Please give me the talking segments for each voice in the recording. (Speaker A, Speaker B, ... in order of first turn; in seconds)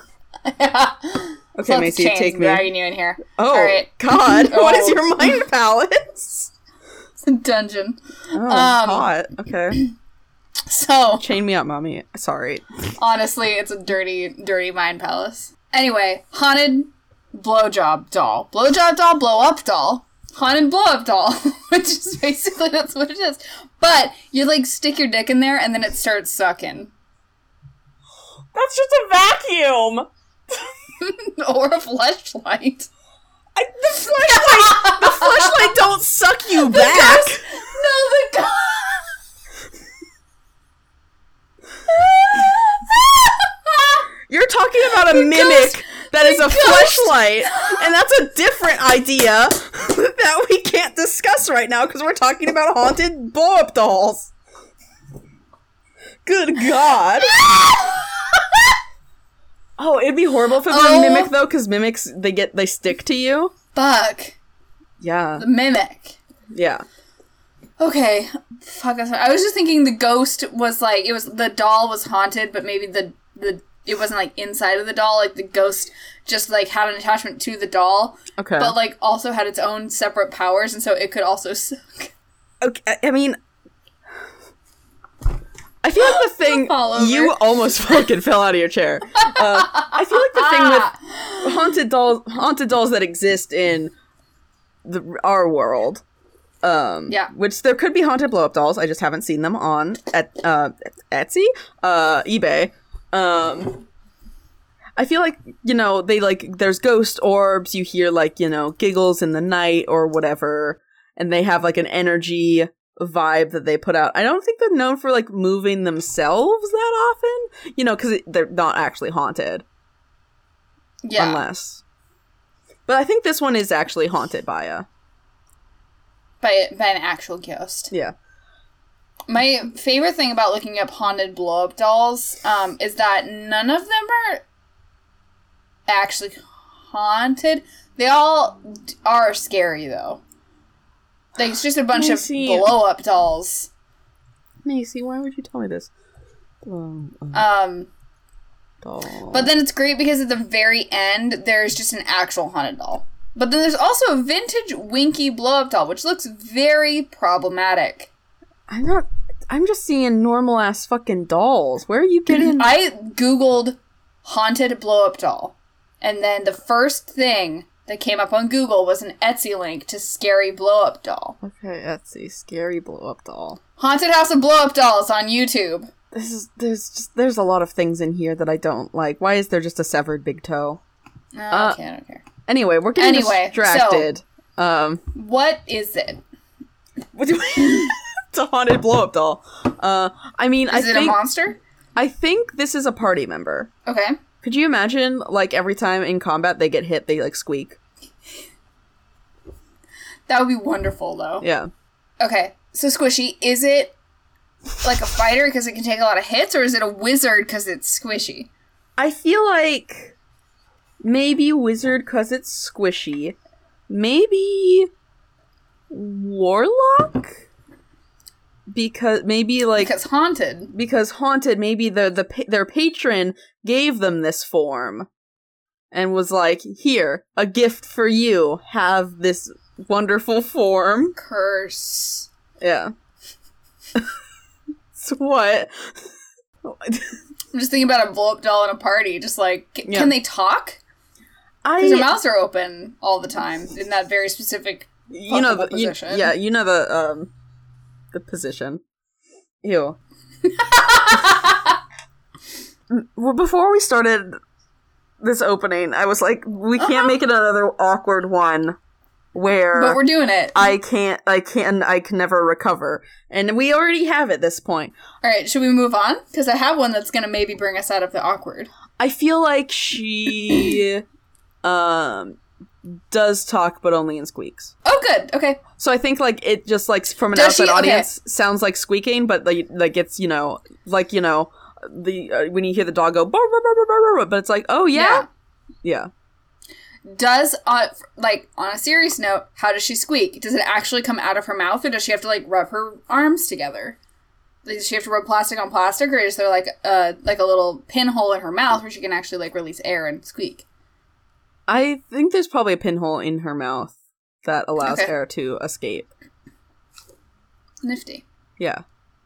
Speaker A: 0.4-5.1, 7.2-9.1, 10.7-11.3, 13.0-26.9, 31.0-32.9, 34.2-35.8, 36.5-39.1, 41.9-44.0, 44.9-47.8, 57.3-58.0, 60.6-61.3, 63.7-64.3, 65.4-66.2, 67.8-82.1, 86.0-87.4, 89.2-91.5, 121.0-121.4, 126.4-127.9, 129.3-134.4, 135.9-140.2, 141.4-143.7, 147.3-147.9, 149.3-158.1, 162.3-171.4, 173.8-175.9, 181.3-182.2, 183.0-184.1, 185.1-186.2, 190.7-191.6, 193.8-194.2, 200.3-201.4, 202.2-203.9, 204.8-208.5, 219.8-220.7, 231.2-232.3, 237.5-240.8, 241.8-246.3, 250.5-251.8, 256.8-257.1, 259.7-260.7, 265.2-268.7, 274.8-275.6, 277.3-278.1, 284.9-285.3, 287.0-294.0, 294.6-300.6, 304.8-305.1, 307.8-308.2
Speaker B: 1.6-2.7, 3.4-6.5, 8.3-9.8, 11.2-12.6, 28.5-30.7, 33.5-37.5, 44.3-54.3, 56.2-57.4, 59.8-63.5, 65.0-65.5, 66.5-66.8, 78.4-78.8, 82.6-83.4, 85.8-93.9, 94.8-96.0, 96.6-103.9, 105.0-119.6, 121.2-121.8, 122.9-124.8, 141.9-142.7, 144.6-145.9, 146.6-147.4, 148.8-149.5, 158.7-162.8, 171.4-173.6, 176.1-180.8, 181.5-181.8, 182.5-185.0, 187.1-191.2, 191.9-193.7, 194.4-197.8, 201.4-201.7, 209.0-210.1, 211.0-213.3, 213.9-214.9, 215.9-217.4, 218.7-219.9, 220.7-225.1, 225.9-231.2, 232.6-232.9, 234.9-235.9, 236.6-237.1, 239.8-240.1, 241.6-242.1, 245.1-247.3, 248.1-248.8, 249.6-250.0, 252.9-254.3, 255.2-258.8, 259.3-260.0, 260.5-264.9, 269.0-271.0, 271.6-274.7, 275.8-285.2, 285.8-286.1, 301.7-306.1